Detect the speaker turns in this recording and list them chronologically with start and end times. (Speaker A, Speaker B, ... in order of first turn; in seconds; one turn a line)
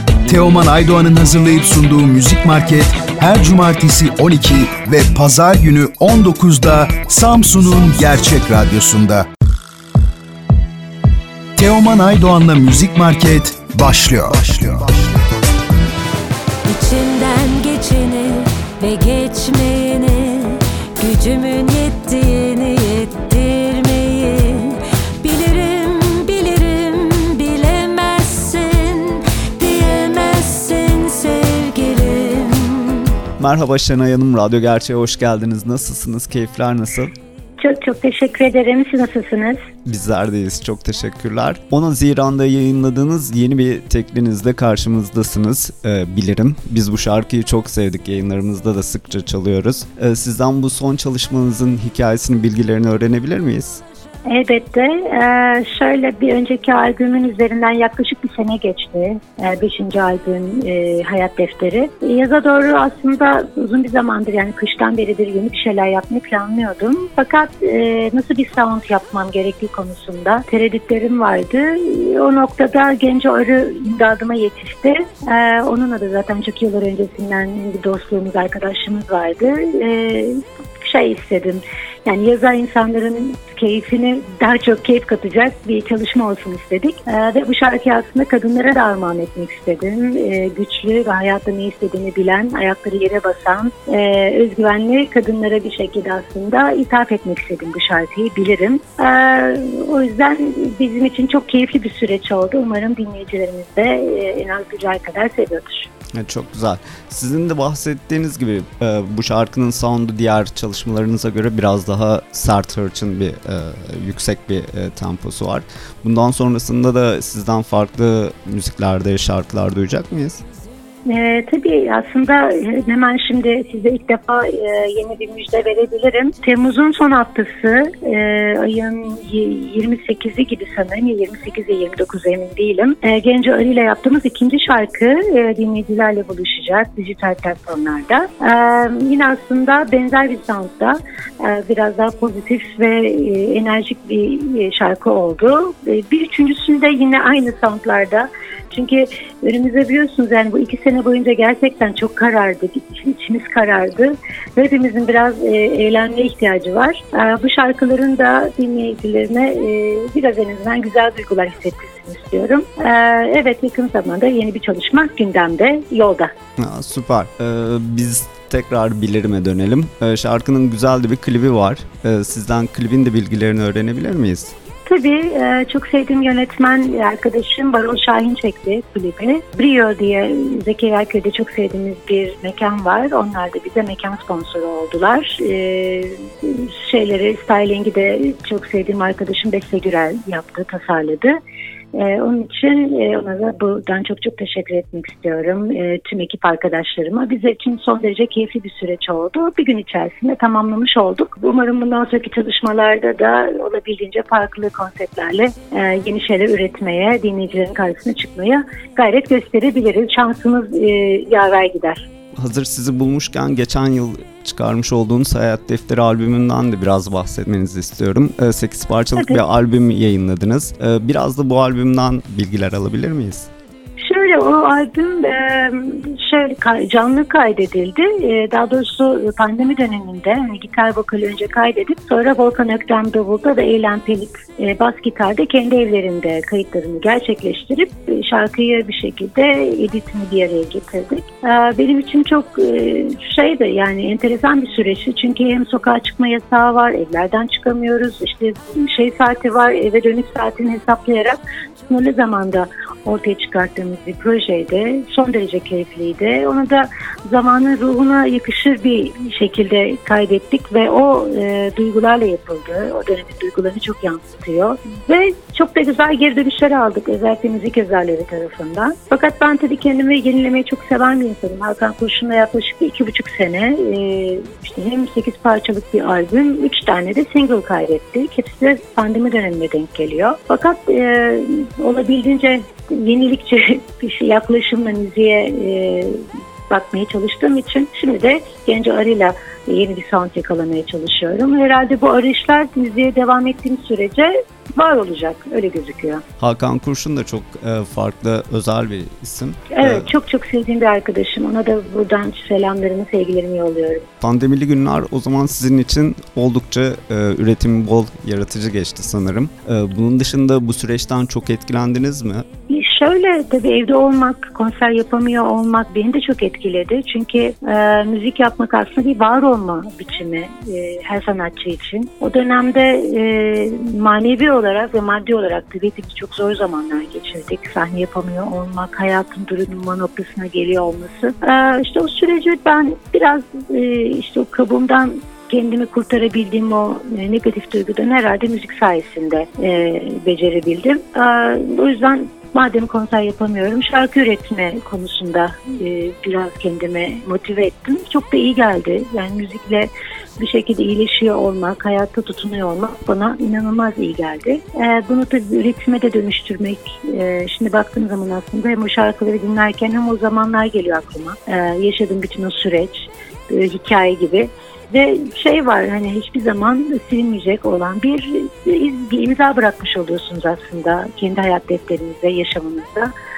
Speaker A: 0.3-9.3
Speaker A: 11.6-14.9
Speaker B: 16.6-33.1
Speaker C: 33.4-37.1
Speaker D: 37.6-39.6
Speaker C: 39.8-53.8
Speaker D: 54.3-105.9
Speaker C: 106.1-120.4
Speaker D: 121.1-166.3
Speaker C: 166.6-174.5
Speaker D: 174.8-191.3
Speaker D: 191.9-212.1
Speaker C: 212.4-223.5
Speaker D: 219.2-219.4
Speaker D: 224.0-296.2
Speaker C: 296.4-300.1
Speaker D: 299.7-304.1
Speaker C: 304.2-312.5
Speaker D: 312.7-373.1